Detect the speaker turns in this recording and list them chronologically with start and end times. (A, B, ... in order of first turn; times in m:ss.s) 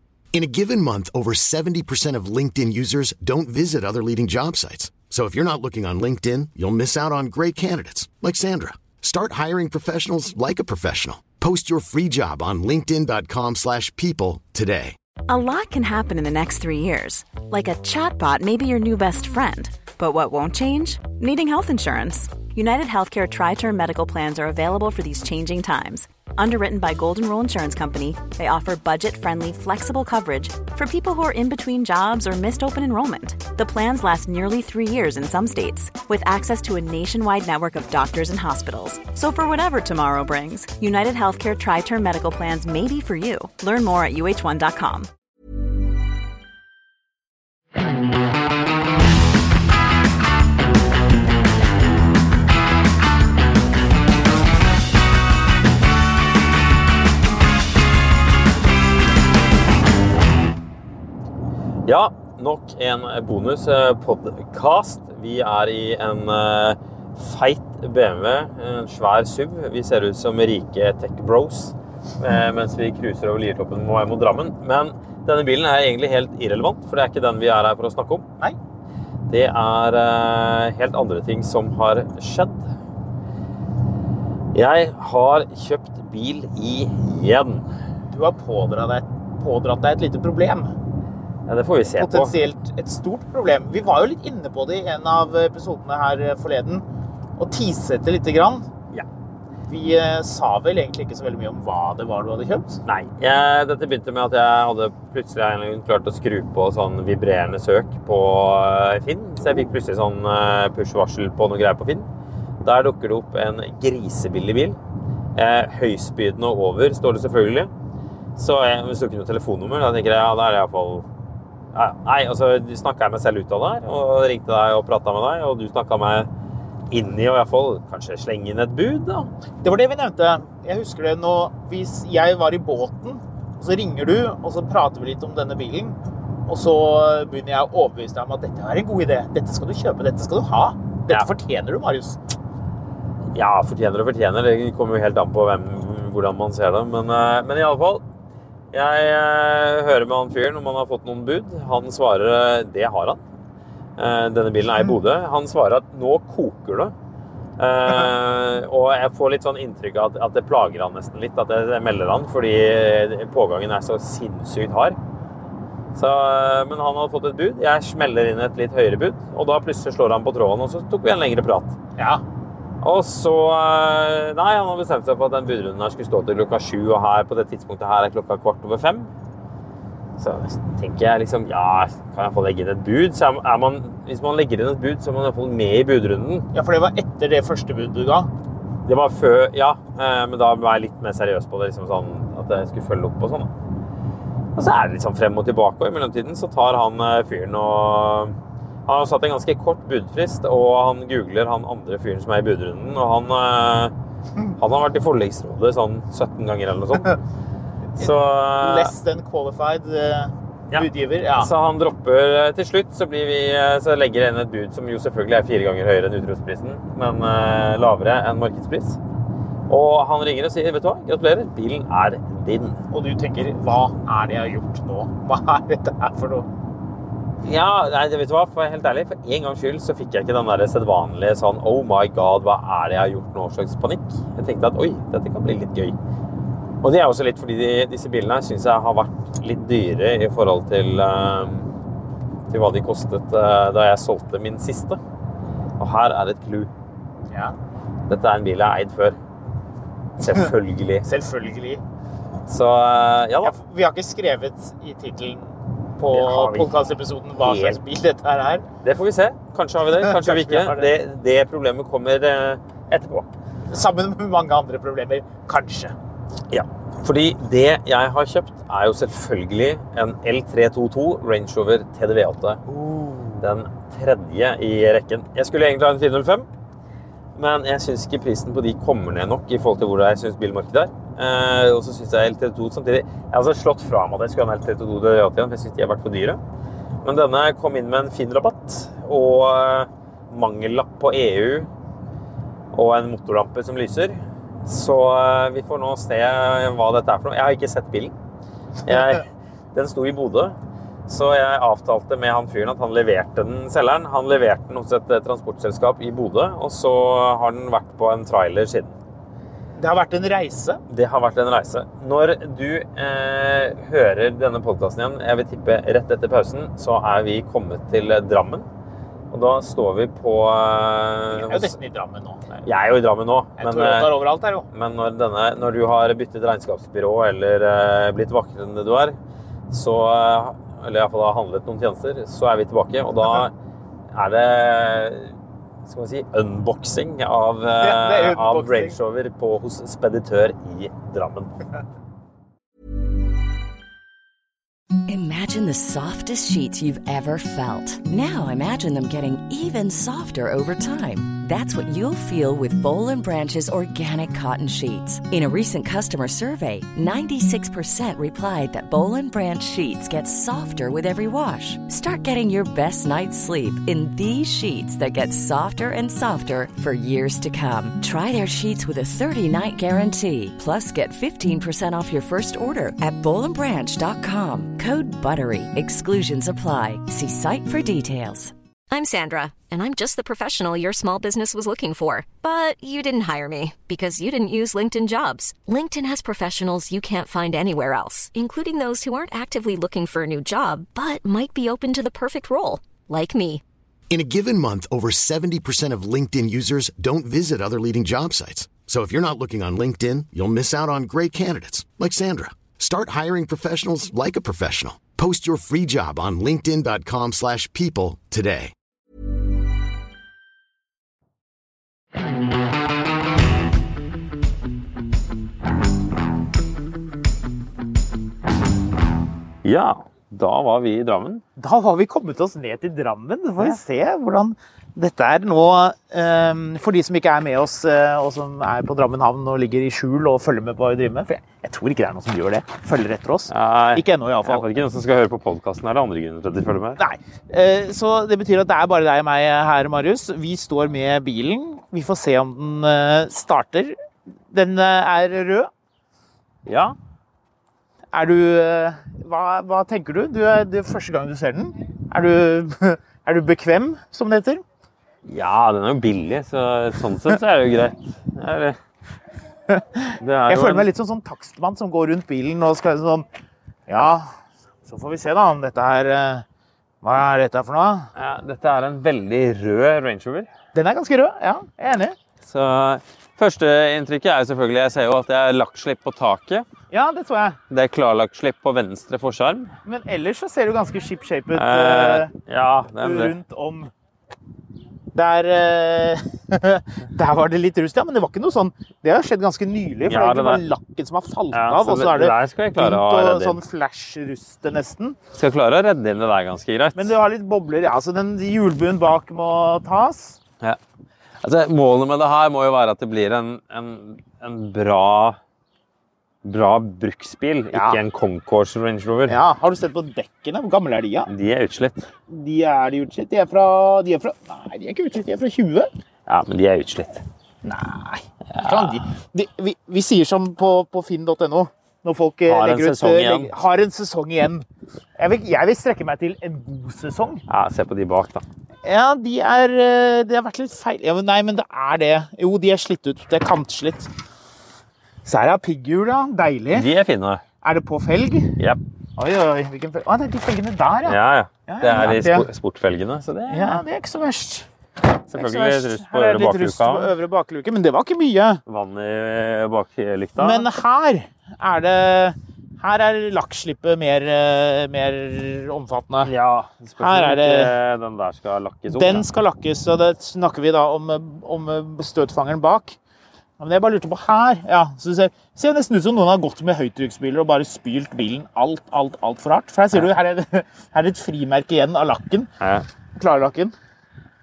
0:00.3-0:15.0 A
0:15.3-0:45.1 B
1:01.8-1:18.2 C
1:19.3-1:22.7 C
1:24.5-1:27.7 C
1:28.1-1:30.7 D
1:31.5-1:32.3 C
1:32.0-1:36.8 D
1:37.4-1:38.7 D
1:39.7-1:42.8 D
1:42.8-1:52.1 C
1:52.6-1:54.8 C
1:55.4-1:57.7 C
1:58.3-2:01.0 C
2:01.7-2:06.3 C
2:06.9-2:09.3 C
2:09.6-2:22.2 D
2:23.3-2:28.0 C
2:28.7-2:33.2 C
2:34.0-2:36.9 C
2:37.6-2:45.0 C
2:45.9-2:51.8 C
2:52.0-2:52.2 D
2:52.8-2:59.1 C
3:00.2-3:06.5 C
3:06.5-3:08.3 D
3:08.8-3:13.5 C
3:14.6-3:18.3 C
3:18.9-3:23.9 C
3:24.6-3:27.2 C
3:28.0-3:28.9 C
3:28.6-3:31.5 D
3:31.4-3:39.0 C
3:39.7-3:42.8 C
3:42.9-3:46.5 D
3:47.4-3:56.0 C
3:56.8-4:01.7 C
4:02.5-4:05.0 C
4:05.8-4:06.7 C
4:08.1-4:09.2 C
4:10.2-4:11.0 C
4:11.0-4:11.8 D
4:12.5-4:13.6 C
4:13.4-4:18.6 D
4:16.1-4:16.8 C
4:17.4-4:17.8 C
4:18.8-4:23.3 C
4:20.0-4:20.9 D
4:23.7-4:25.9 D
4:26.5-4:32.6 C
4:32.6-4:33.5 D
4:33.4-4:36.5 C
4:37.4-4:46.4 C
4:47.0-4:51.7 C
4:52.7-4:58.1 C
4:58.8-5:00.6 C
5:01.1-5:09.0 C
5:09.8-5:10.8 D
5:10.9-5:18.7 C
5:19.3-5:21.7 C
5:21.3-5:22.6 D
5:22.6-5:24.1 C
5:23.6-5:24.6 D
5:24.7-5:29.2 C
5:29.7-5:33.5 C
5:34.1-5:35.3 C
5:35.8-5:41.6 C
5:37.8-5:39.0 D
5:45.1-6:18.5 E
6:18.9-6:33.6 F
6:34.1-6:48.7 A
6:59.6-7:01.4 C
7:01.6-7:14.6 D
7:13.5-7:17.0 C
7:17.0-7:23.9 D
7:24.5-7:25.7 D
7:26.6-7:26.9 C
7:28.1-7:34.6 D
7:35.2-7:38.8 C
7:39.7-7:43.2 D
7:40.2-7:40.9 C
7:43.9-7:44.3 D
7:44.8-7:46.4 D
7:47.0-7:48.1 D
7:48.2-7:50.5 C
7:50.7-7:52.1 D
7:52.4-7:56.7 C
7:56.9-7:57.6 D
7:57.7-7:59.7 C
7:59.8-8:02.3 D
8:01.5-8:03.3 C
8:03.0-8:03.9 D
8:05.1-8:15.2 D
8:10.1-8:10.6 C
8:11.5-8:13.6 C
8:15.3-8:17.1 C
8:16.9-8:20.4 D
8:21.4-8:25.4 C
8:26.4-8:29.4 C
8:27.7-8:28.0 D
8:29.3-8:31.3 D
8:31.3-8:32.0 C
8:32.3-8:35.9 D
8:36.3-8:37.2 C
8:37.6-8:44.6 D
8:38.5-8:39.0 C
8:42.5-8:43.5 C
8:45.2-8:47.4 D
8:47.5-8:48.4 C
8:48.8-8:54.1 D
8:55.2-8:56.9 D
8:56.7-8:57.4 C
8:57.6-8:58.6 D
8:59.2-9:02.5 D
9:01.0-9:03.8 C
9:03.5-9:04.7 D
9:05.3-9:07.1 C
9:05.3-9:08.6 D
9:08.7-9:10.7 C
9:10.4-9:16.3 D
9:16.2-9:19.2 C
9:17.0-9:17.7 D
9:18.9-9:23.0 D
9:23.6-9:32.5 D
9:32.6-9:32.8 C
9:33.2-9:33.7 D